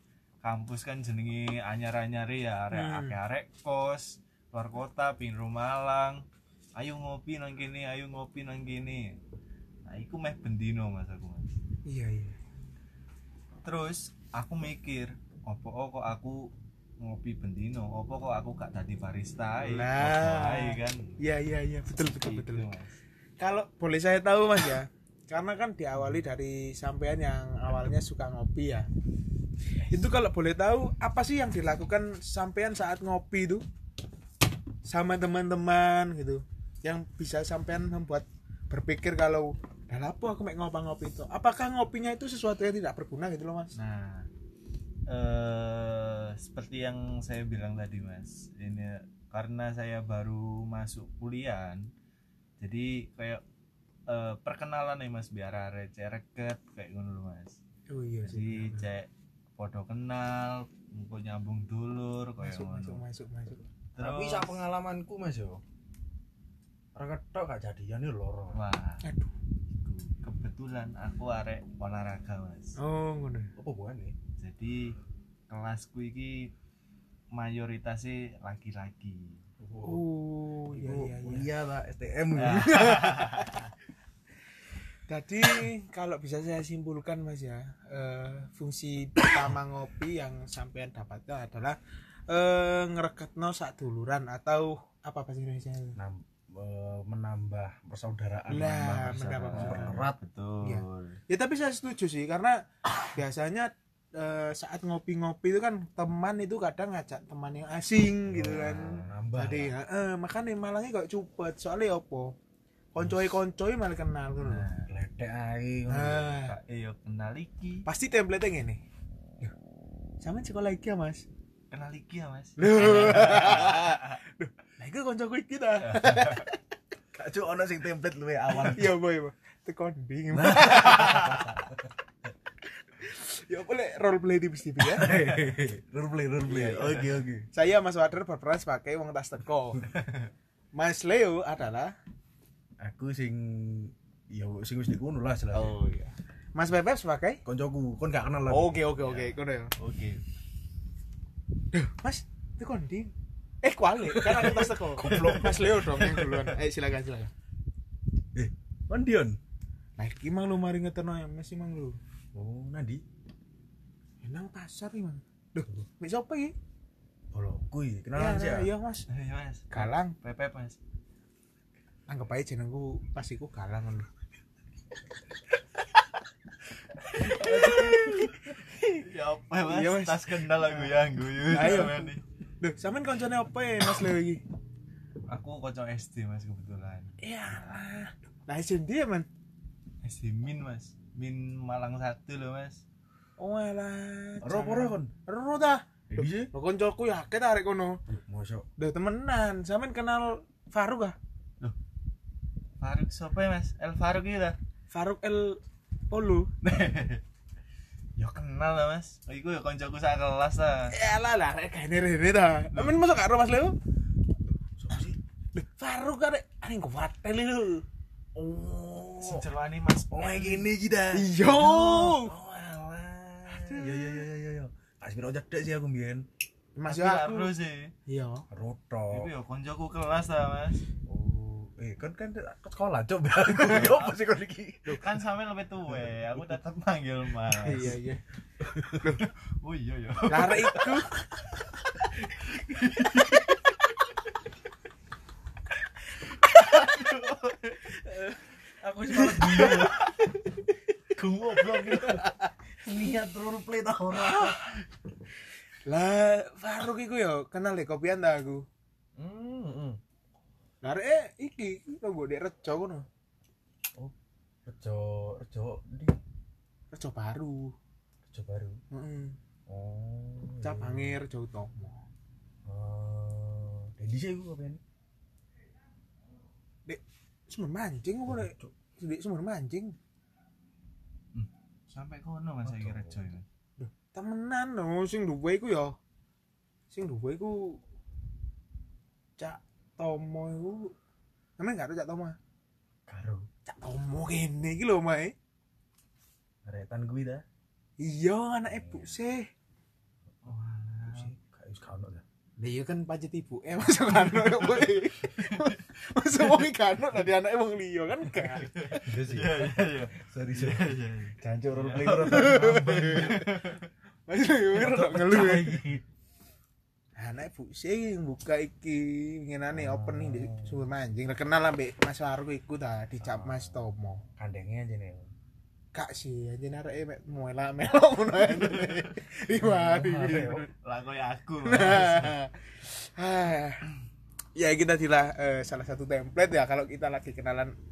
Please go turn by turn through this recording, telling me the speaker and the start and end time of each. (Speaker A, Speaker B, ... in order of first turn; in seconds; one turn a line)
Speaker A: 0.4-6.2
Speaker B: 2.7-3.1
Speaker A: 6.8-9.2
Speaker A: 9.8-11.5
Speaker B: 11.8-12.4
Speaker A: 13.6-21.1
Speaker B: 19.6-22.6
Speaker A: 21.9-23.0
Speaker B: 23.4-28.9
Speaker B: 29.9-33.6
Speaker B: 34.8-43.7
Speaker A: 43.7-44.3
Speaker A: 45.1-51.9
Speaker A: 52.6-53.4
Speaker A: 54.1-57.6
Speaker B: 57.9-58.9
Speaker A: 58.2-63.0
Speaker B: 62.4-63.7
Speaker A: 63.9-64.6
Speaker C: 64.0-65.6
Speaker C: 66.9-68.6
Speaker A: 68.5-69.0
Speaker B: 69.0-69.3
Speaker A: 69.7-72.8
Speaker B: 72.8-73.5
Speaker C: 73.5-74.2
Speaker A: 74.4-75.0
Speaker A: 75.5-76.5
Speaker A: 77.3-79.4
Speaker C: 79.6-80.0
Speaker B: 79.8-81.5
Speaker C: 80.7-83.2
Speaker A: 82.3-83.6
Speaker B: 82.4-83.4
Speaker B: 85.1-91.8
Speaker B: 92.3-96.0
Speaker C: 96.0-100.2
Speaker B: 98.5-100.0
Speaker A: 99.1-101.2
Speaker B: 100.6-102.6
Speaker B: 103.1-112.3
Speaker C: 108.3-109.7
Speaker A: 108.7-109.0
Speaker B: 112.9-114.7
Speaker C: 113.0-113.3
Speaker A: 114.4-114.9
Speaker C: 114.9-116.4
Speaker B: 115.9-116.5
Speaker A: 116.5-117.8
Speaker B: 117.8-118.8
Speaker B: 120.2-121.3
Speaker A: 121.7-124.0
Speaker B: 122.6-126.6
Speaker A: 125.8-126.4
Speaker C: 127.1-129.0
Speaker B: 128.5-131.5
Speaker C: 130.3-131.9
Speaker B: 133.0-135.2
Speaker C: 135.0-137.5
Speaker A: 136.4-137.1
Speaker B: 137.5-139.8
Speaker A: 139.8-140.3
Speaker B: 140.7-141.9
Speaker C: 142.8-145.8
Speaker A: 145.5-146.1
Speaker B: 146.5-147.4
Speaker C: 147.4-148.8
Speaker B: 148.5-149.7
Speaker A: 149.0-150.2
Speaker B: 151.7-153.1
Speaker B: 153.6-157.3
Speaker C: 154.1-156.5
Speaker C: 158.3-159.4
Speaker B: 160.0-162.0
Speaker C: 162.3-163.0
Speaker B: 164.2-166.5
Speaker C: 167.3-168.7
Speaker B: 168.2-169.1
Speaker A: 169.1-170.8
Speaker B: 169.7-170.2
Speaker B: 172.1-174.1
Speaker B: 177.1-179.0
Speaker C: 177.2-178.4
Speaker A: 177.8-178.2
Speaker A: 178.8-182.2
Speaker B: 179.6-180.9
Speaker B: 181.4-184.4
Speaker A: 185.3-187.2
Speaker B: 187.2-189.3
Speaker A: 190.0-192.8
Speaker B: 193.4-195.9
Speaker C: 194.4-195.1
Speaker C: 196.1-196.5
Speaker B: 196.4-198.0
Speaker C: 198.1-198.7
Speaker B: 198.8-201.2
Speaker A: 202.8-204.6
Speaker B: 204.9-206.5
Speaker A: 206.6-207.2
Speaker A: 208.2-210.9
Speaker B: 210.9-213.8
Speaker C: 214.8-215.2
Speaker B: 215.5-217.8
Speaker C: 218.3-219.4
Speaker A: 219.2-220.7
Speaker C: 220.1-226.3
Speaker B: 221.1-222.3
Speaker B: 223.5-224.2
Speaker B: 226.8-227.5
Speaker A: 226.8-227.9
Speaker B: 228.1-228.4
Speaker C: 228.5-229.3
Speaker A: 229.1-230.8
Speaker C: 231.1-235.0
Speaker A: 233.6-234.1
Speaker A: 234.8-238.0
Speaker B: 237.6-238.2
Speaker C: 237.7-237.9
Speaker C: 238.7-238.9
Speaker A: 238.8-243.6
Speaker B: 238.9-239.2
Speaker B: 240.3-241.4
Speaker A: 246.4-248.0
Speaker B: 248.1-248.4
Speaker C: 248.8-250.1
Speaker B: 249.2-250.8
Speaker C: 251.1-252.3
Speaker B: 251.7-252.5
Speaker C: 252.8-254.6
Speaker B: 254.2-254.8
Speaker B: 255.8-258.6
Speaker C: 259.2-260.0
Speaker B: 260.8-263.1
Speaker C: 264.6-266.2
Speaker B: 266.9-267.7
Speaker C: 268.3-268.8
Speaker B: 268.9-269.4
Speaker C: 269.7-271.2
Speaker B: 270.6-272.0
Speaker C: 272.6-274.8
Speaker B: 276.9-279.9
Speaker C: 278.2-278.7
Speaker A: 281.3-283.4
Speaker C: 282.6-283.3
Speaker B: 283.8-285.9
Speaker B: 286.9-287.8
Speaker B: 289.4-290.9
Speaker B: 291.6-292.4
Speaker C: 293.1-293.5
Speaker B: 293.6-295.3
Speaker C: 296.6-297.4
Speaker B: 298.0-299.5
Speaker C: 298.7-299.1
Speaker A: 300.4-301.3
Speaker C: 301.1-302.2
Speaker B: 302.6-309.1
Speaker A: 304.4-305.7
Speaker A: 308.7-313.9
Speaker C: 309.0-313.4
Speaker B: 312.1-313.7
Speaker B: 314.3-315.8
Speaker C: 314.7-316.0
Speaker B: 317.1-324.2
Speaker C: 319.7-320.8
Speaker C: 323.2-323.8
Speaker C: 324.4-325.3
Speaker B: 325.9-330.7
Speaker A: 328.5-329.1
Speaker C: 329.5-330.6
Speaker A: 330.8-332.3
Speaker B: 331.6-333.8
Speaker B: 334.5-337.7